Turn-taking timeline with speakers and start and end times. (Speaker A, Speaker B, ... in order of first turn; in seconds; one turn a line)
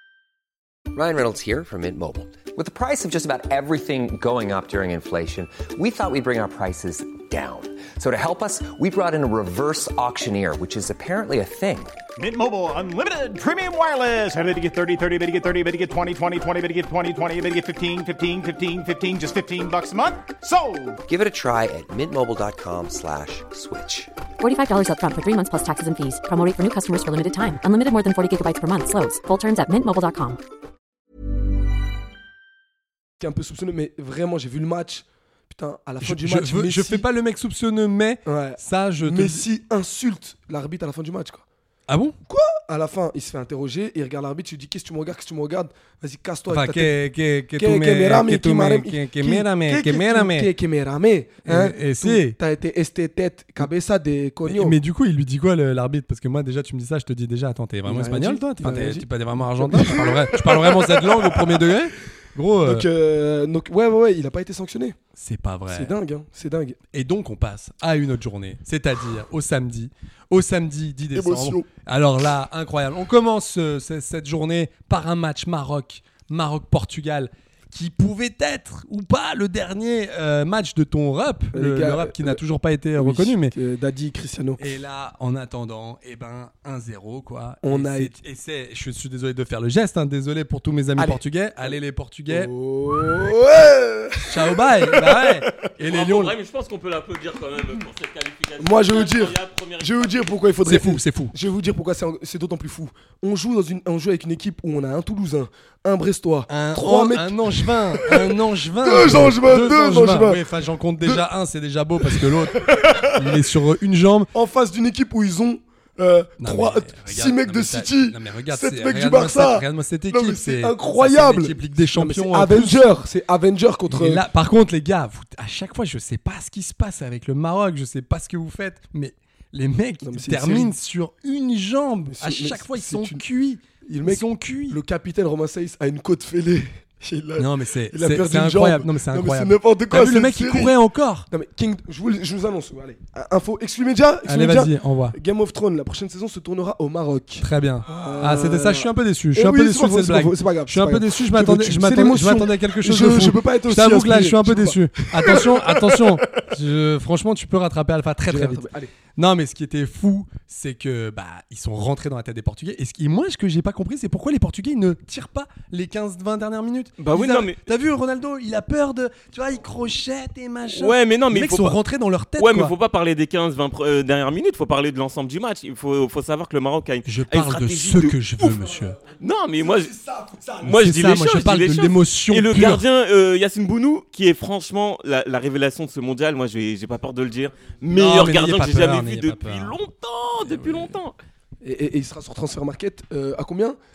Speaker A: 0.9-12.0
Speaker B: 12.2-21.0
Speaker A: 21.1-24.1
Speaker C: 24.4-30.4
Speaker D: 33.2-37.0
Speaker E: 36.0-39.5
Speaker D: 38.2-41.4
Speaker E: 41.9-42.2
Speaker D: 42.3-47.0
Speaker E: 46.5-50.5
Speaker D: 47.5-54.8
Speaker E: 51.4-52.4
Speaker E: 54.4-62.9
Speaker D: 57.9-61.7
Speaker D: 62.6-65.0
Speaker E: 65.2-65.9
Speaker D: 65.7-66.8
Speaker E: 66.9-83.5
Speaker D: 71.1-71.7
Speaker D: 81.5-82.4
Speaker D: 83.0-84.6
Speaker E: 84.6-92.5
Speaker D: 87.6-88.1
Speaker D: 91.0-91.7
Speaker D: 92.3-95.3
Speaker E: 94.3-96.3
Speaker F: 95.8-100.3
Speaker D: 98.6-110.4
Speaker E: 100.6-101.3
Speaker E: 106.5-114.3
Speaker D: 112.0-113.2
Speaker D: 114.3-124.2
Speaker E: 116.4-122.9
Speaker E: 123.9-134.8
Speaker D: 130.0-130.7
Speaker D: 132.1-133.2
Speaker D: 133.8-140.7
Speaker E: 137.4-141.3
Speaker D: 141.3-156.4
Speaker E: 144.2-145.2
Speaker E: 147.4-172.7
Speaker D: 158.3-158.9
Speaker F: 167.1-167.6
Speaker F: 170.7-171.8
Speaker F: 172.4-178.6
Speaker E: 177.0-179.0
Speaker F: 179.2-179.9
Speaker D: 179.9-180.7
Speaker E: 180.6-182.8
Speaker F: 180.6-191.1
Speaker E: 187.9-189.8
Speaker E: 190.4-190.9
Speaker D: 191.6-193.8